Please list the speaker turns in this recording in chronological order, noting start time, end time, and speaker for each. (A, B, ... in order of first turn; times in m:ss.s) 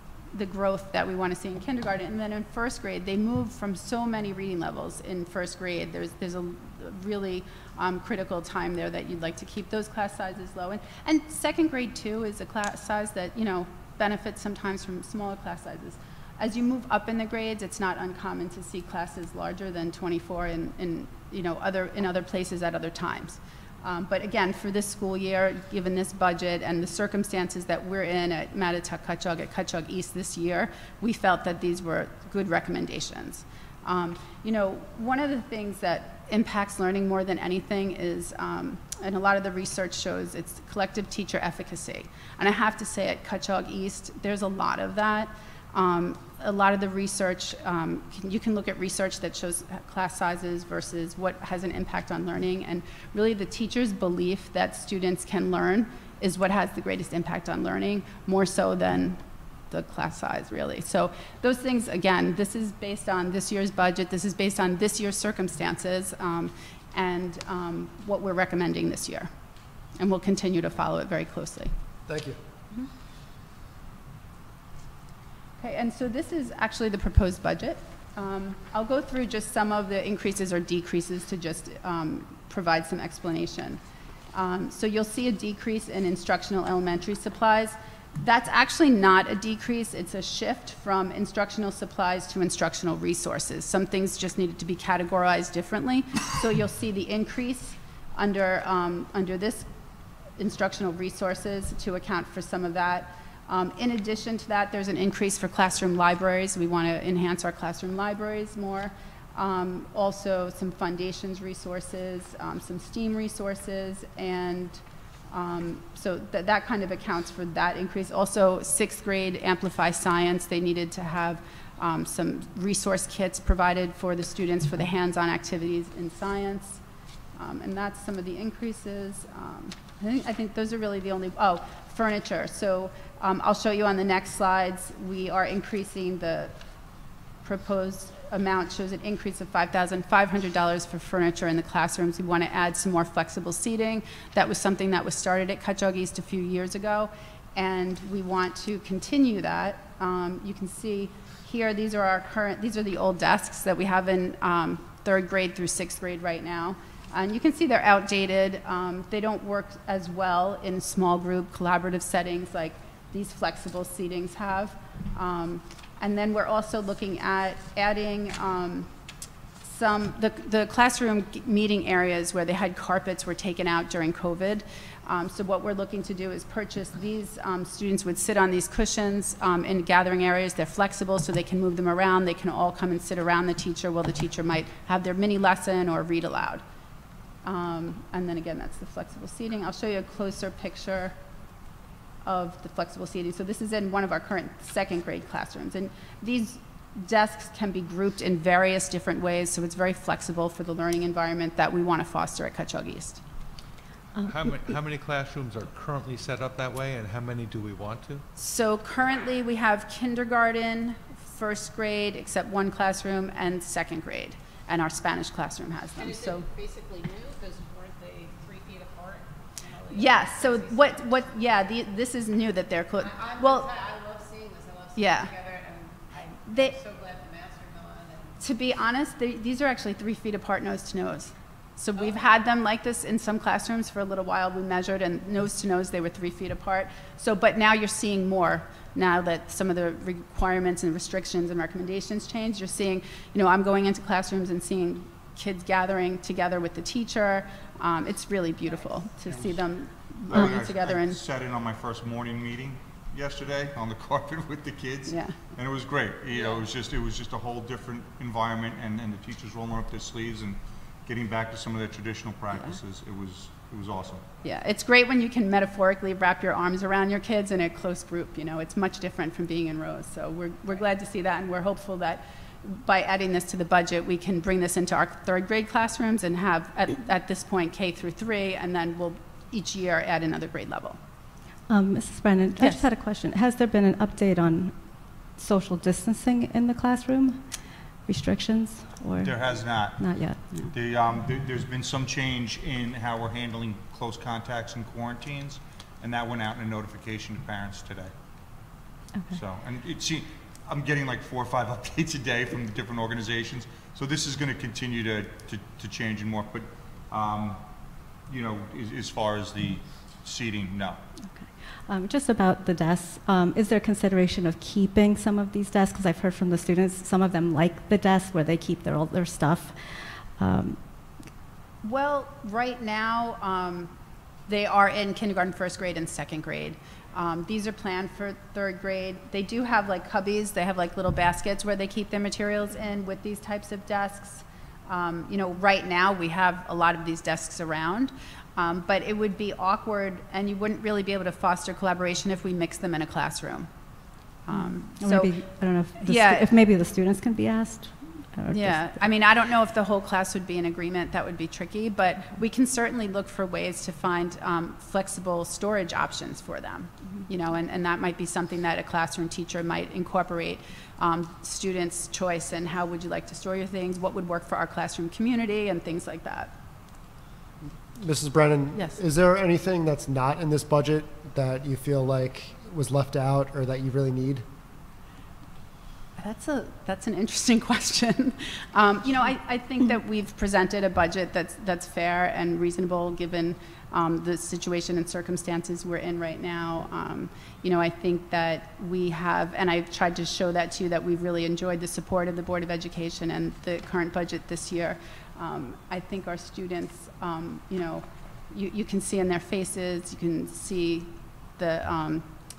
0:00.3-1:09.3 A
1:10.0-1:11.7 A
1:12.1-1:12.4 B
1:15.6-1:23.8 A
1:24.3-1:39.7 A
1:40.4-2:06.8 A
2:07.4-2:16.5 A
2:17.4-2:48.9 A
2:49.6-3:06.6 A
3:07.4-3:11.2 A
3:12.2-3:23.2 A
3:24.2-3:24.6 C
3:24.2-3:28.2 D
3:28.4-3:36.4 A
3:36.0-3:41.8 E
3:39.9-3:43.7 A
3:43.0-3:48.4 E
3:45.0-3:45.3 A
3:46.5-3:46.8 A
3:48.4-4:11.2 A
3:51.9-3:52.3 E
4:08.7-4:08.9 E
4:10.3-4:24.2 F
4:15.1-4:15.4 A
4:16.3-4:16.6 E
4:24.4-4:41.0 A
4:41.7-4:49.4 C
4:42.6-4:42.8 A
4:49.2-4:58.1 F
4:50.0-4:50.7 C
4:59.3-5:07.6 F
5:08.3-5:11.0 F
5:11.3-5:20.8 C
5:21.8-5:23.9 A
5:24.5-5:43.7 A
5:44.4-5:45.3 A
5:44.5-5:49.0 C
5:46.0-5:46.5 A
5:48.5-6:06.5 A
6:08.0-6:14.4 B
6:08.7-6:09.0 A
6:16.2-6:42.3 A